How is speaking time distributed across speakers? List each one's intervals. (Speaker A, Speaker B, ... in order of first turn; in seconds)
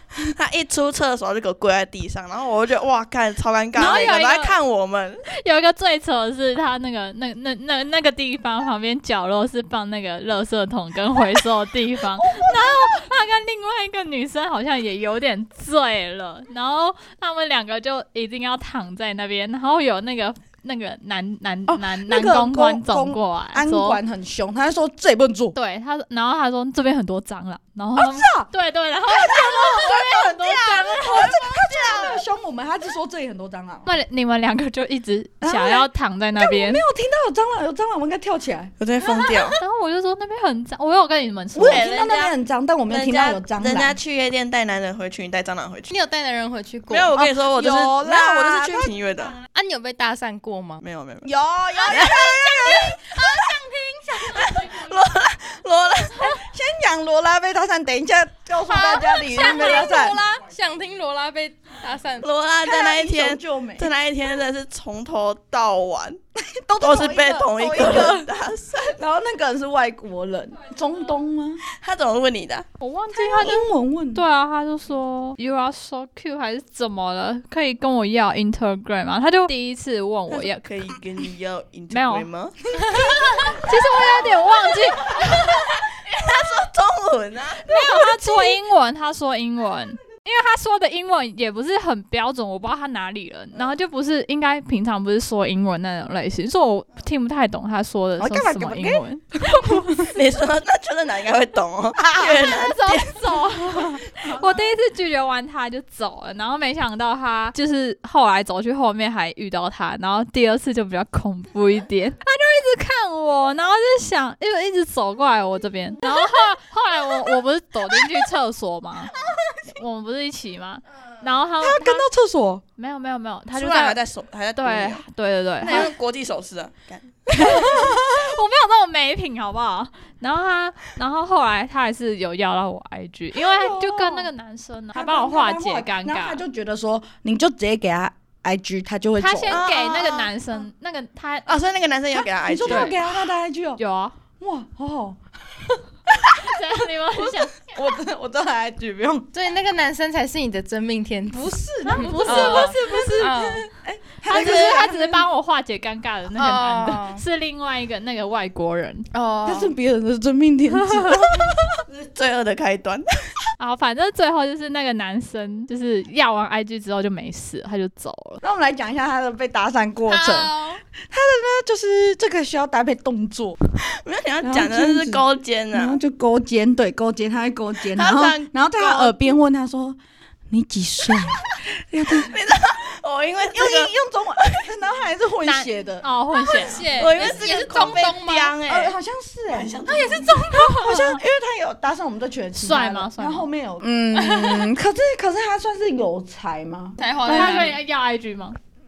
Speaker A: 0.2-5.2, 29.7-32.2, 38.8-39.6, 41.6-42.3, 42.9-45.9, 46.9-49.4, 50.8-51.3, 51.9-53.5, 54.2-56.3, 62.2-66.2, 66.8-69.0, 71.7-72.7, 80.3-82.6, 83.9-84.3, 85.0-87.7, 100.1-103.4, 123.5-125.0, 125.6-127.3, 139.5-140.3, 141.4-143.0, 154.3-154.8, 161.9-163.1, 174.0-176.0, 177.9-179.3, 182.1-184.7, 187.0-188.9, 189.5-190.4
Speaker B: 3.7-4.5, 5.3-24.0, 25.5-31.5, 33.9-36.8, 39.6-41.9, 72.8-80.6, 81.9-85.4, 87.7-100.1, 102.2-119.1, 119.7-122.1, 122.8-124.0, 124.6-125.9, 127.3-136.4, 139.2-141.5, 142.6-143.0, 143.8-144.1, 146.2-147.8, 151.8-153.6, 154.3-159.1, 160.9-161.2, 163.6-168.4, 185.4-187.2, 189.9-191.2, 192.6-193.5, 197.3-198.6
Speaker C: 3.8-4.1, 12.2-13.0, 21.7-25.5, 27.9-28.5, 29.1-33.9, 35.4-38.7, 41.5-44.0, 47.1-48.9, 51.2-53.1, 56.2-60.2, 62.6-63.9, 66.3-68.3, 68.8-71.6, 73.1-74.2, 82.8-84.0, 87.7-88.6, 98.2-100.1, 102.0-102.6, 121.6-122.6, 127.3-128.4, 133.3-134.3, 134.9-139.7, 142.4-143.8, 144.4-149.3, 151.3-155.2, 159.4-161.8, 168.4-170.5, 171.0-173.6, 174.4-180.0, 180.5-182.3, 183.5-186.0, 188.7-197.7
Speaker D: 39.0-39.6, 45.9-47.2, 49.5-50.8, 51.8-54.6, 58.7-62.3, 149.3-153.6, 156.3-157.2, 159.1-159.7, 170.1-170.8, 186.3-188.5, 189.9-190.8, 194.1-194.7, 197.0-197.8